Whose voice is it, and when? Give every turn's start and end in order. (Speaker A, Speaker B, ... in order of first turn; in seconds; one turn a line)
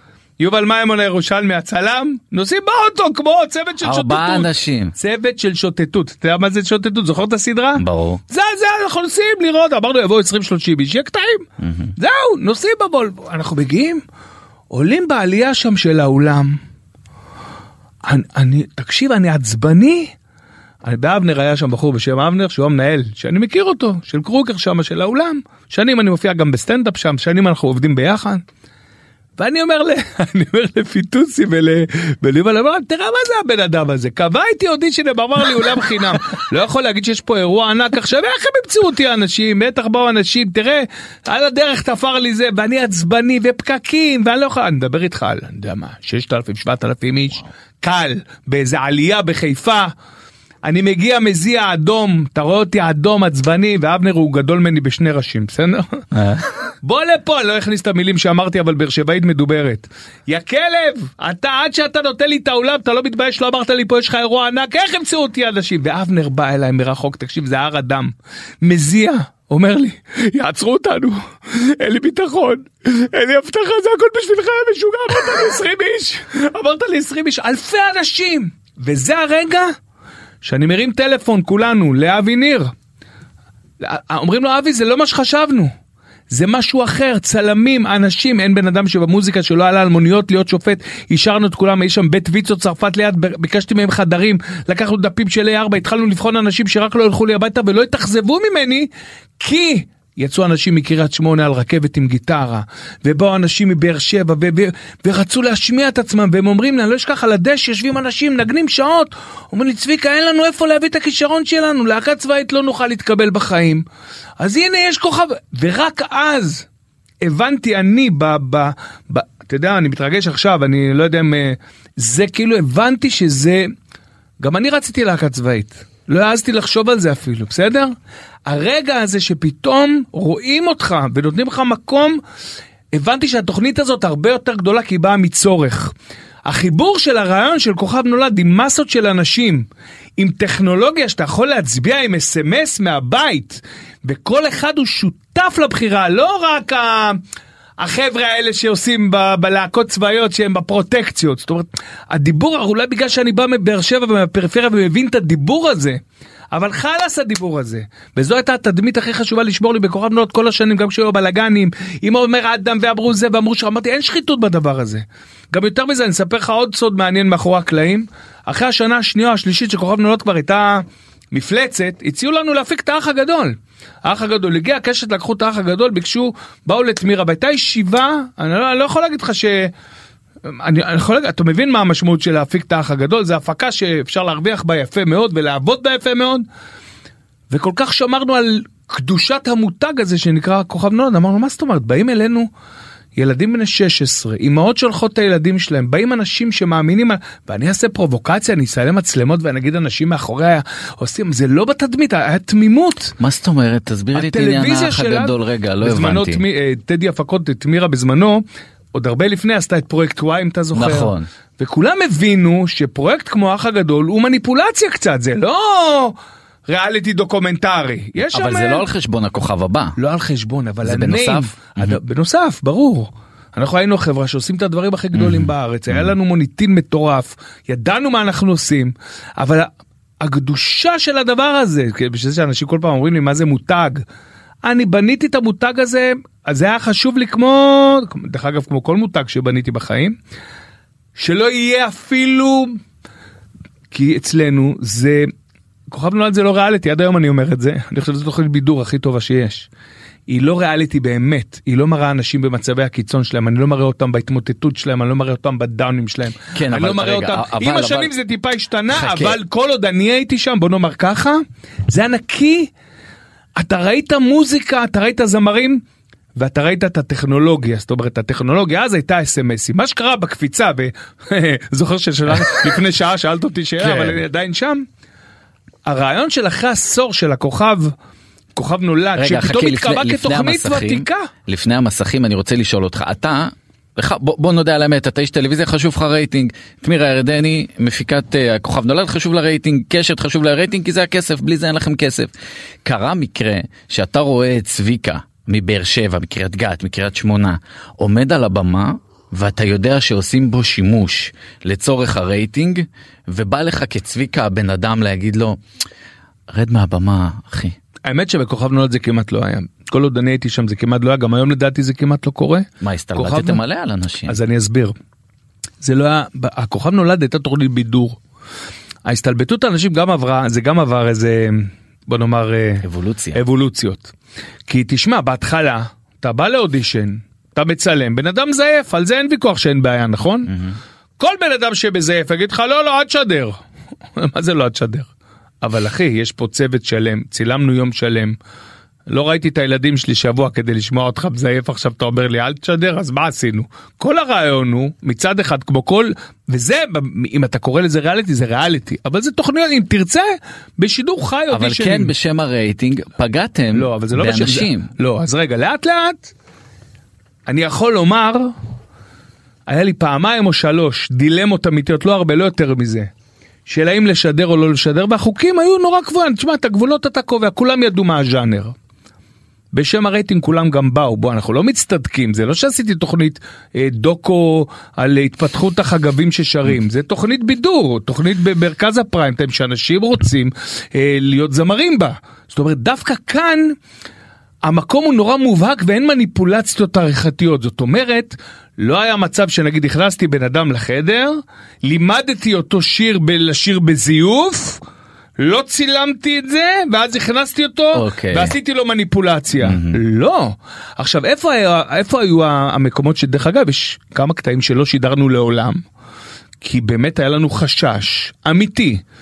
Speaker A: 0.4-14.0
Speaker B: 3.8-5.0
Speaker B: 7.8-8.2
Speaker B: 11.6-11.9
Speaker A: 14.7-16.6
Speaker A: 18.1-20.1
Speaker A: 20.9-28.4
Speaker A: 29.4-49.9
Speaker A: 50.6-56.0
Speaker B: 56.1-56.4
Speaker A: 56.8-79.7
Speaker A: 80.4-82.7
Speaker A: 83.8-85.7
Speaker A: 86.3-98.9
Speaker A: 99.4-113.8
Speaker A: 114.4-116.7
Speaker A: 117.2-123.7
Speaker A: 124.4-127.9
Speaker A: 128.5-132.2
Speaker A: 132.9-135.9
Speaker A: 136.5-139.7
Speaker A: 140.2-147.2
Speaker A: 147.8-156.0
Speaker A: 156.5-179.7
Speaker A: 180.5-186.4
Speaker A: 187.5-192.5
Speaker A: 193.2-203.2
Speaker B: 203.2-206.4
Speaker A: 204.2-208.4
Speaker A: 208.9-216.2
Speaker B: 210.7-211.3
Speaker A: 216.7-218.9
Speaker B: 218.2-219.9
Speaker A: 220.0-229.7
Speaker B: 220.8-222.0
Speaker B: 225.1-226.1
Speaker A: 230.2-234.0
Speaker A: 234.7-240.2
Speaker A: 241.2-242.8
Speaker A: 243.9-245.3
Speaker A: 245.9-249.7
Speaker A: 250.3-262.7
Speaker B: 256.5-258.1
Speaker B: 258.9-259.4
Speaker A: 263.6-265.8
Speaker A: 266.4-274.9
Speaker B: 273.8-274.2
Speaker A: 275.9-277.9
Speaker A: 278.6-281.3
Speaker B: 279.2-292.3
Speaker B: 292.9-305.6
Speaker B: 306.5-307.8
Speaker A: 308.1-313.6
Speaker B: 312.8-314.4
Speaker A: 314.3-314.9
Speaker A: 315.8-318.2
Speaker A: 319.1-324.1
Speaker B: 322.8-323.4
Speaker A: 324.7-330.5
Speaker B: 330.5-330.8
Speaker A: 331.2-333.6
Speaker A: 334.2-335.1
Speaker A: 335.6-338.4
Speaker A: 339.1-352.1
Speaker B: 351.5-354.9
Speaker A: 353.7-356.3
Speaker A: 357.5-358.5
Speaker A: 359.7-363.1
Speaker A: 363.7-368.7
Speaker A: 369.7-383.8
Speaker A: 384.7-394.8
Speaker A: 395.4-405.8
Speaker B: 397.9-398.6
Speaker B: 399.6-400.0
Speaker A: 406.6-409.0